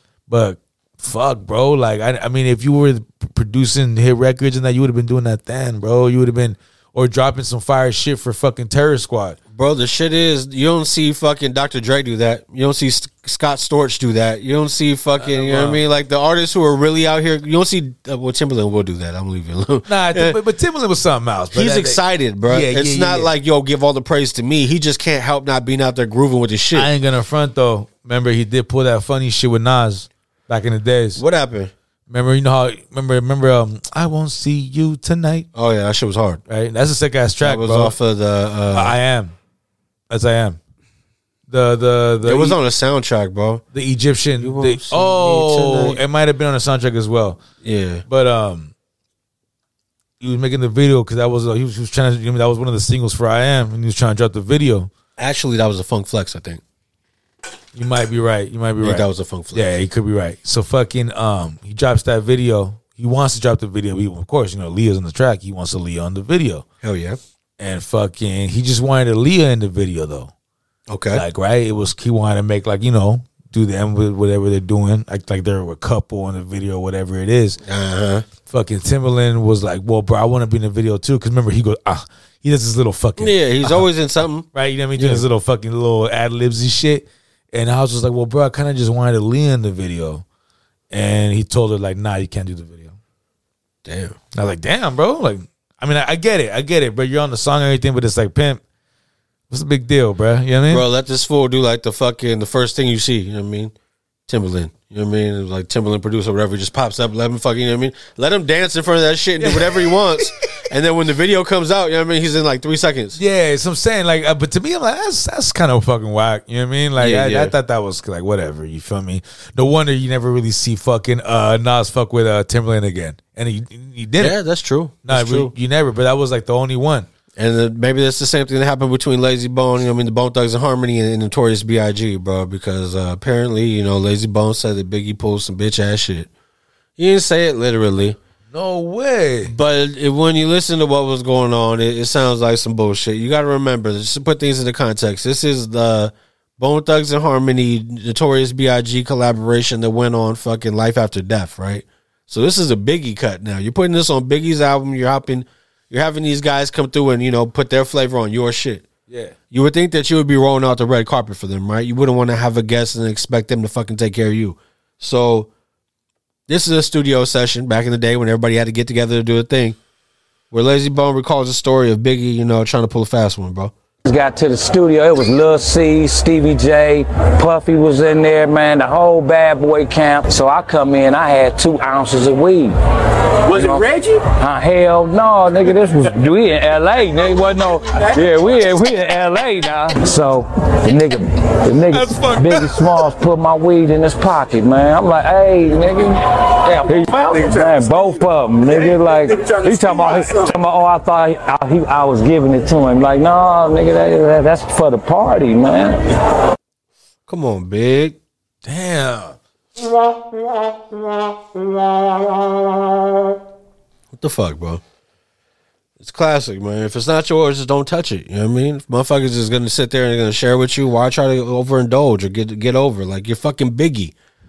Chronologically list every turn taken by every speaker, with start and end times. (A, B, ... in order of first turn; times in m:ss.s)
0:00.3-0:09.4 A
0:09.5-0:20.4 B
0:15.2-0:15.8 A
0:19.8-0:23.3 A
0:21.5-0:26.9 B
0:26.7-0:31.2 A
0:31.2-0:31.7 B
0:32.1-0:35.5 A
0:35.5-0:36.4 B
0:36.5-0:37.9 A
0:37.4-0:39.0 B
0:38.7-0:39.3 A
0:40.1-0:40.6 A
0:41.5-0:42.6 A
0:42.2-0:43.6 B
0:43.7-0:47.4 A
0:44.4-0:46.0 B
0:47.6-0:48.0 B
0:48.1-0:48.7 A
0:50.2-0:54.9 A
0:55.2-0:56.6 B
0:57.7-1:06.6 A
0:58.8-0:59.6 B
1:06.8-1:07.2 B
1:07.6-1:10.3 A
1:10.9-1:11.2 B
1:11.1-1:17.6 A
1:17.6-1:18.2 B
1:18.5-1:23.8 A
1:23.2-1:25.2 B
1:24.5-1:30.2 A
1:30.9-1:33.0 A
1:33.8-1:34.2 B
1:34.3-1:38.6 A
1:39.5-1:40.8 A
1:40.7-1:43.7 B
1:44.3-1:53.2 B
1:49.4-1:50.2 A
1:53.2-2:04.4 A
1:57.0-1:57.5 B
2:04.2-2:05.5 B
2:05.0-2:07.1 A
2:07.4-2:16.3 B
2:17.0-2:18.2 B
2:18.5-2:19.5 A
2:19.4-2:38.8 B
2:39.1-2:39.3 A
2:39.5-2:45.5 B
2:46.5-2:49.8 B
2:50.5-2:53.7 B
2:54.0-3:02.7 C
3:03.5-3:26.0 C
3:11.9-3:12.8 A
3:27.3-3:28.2 B
3:28.6-3:29.4 A
3:34.1-3:34.8 B
3:36.0-3:44.1 B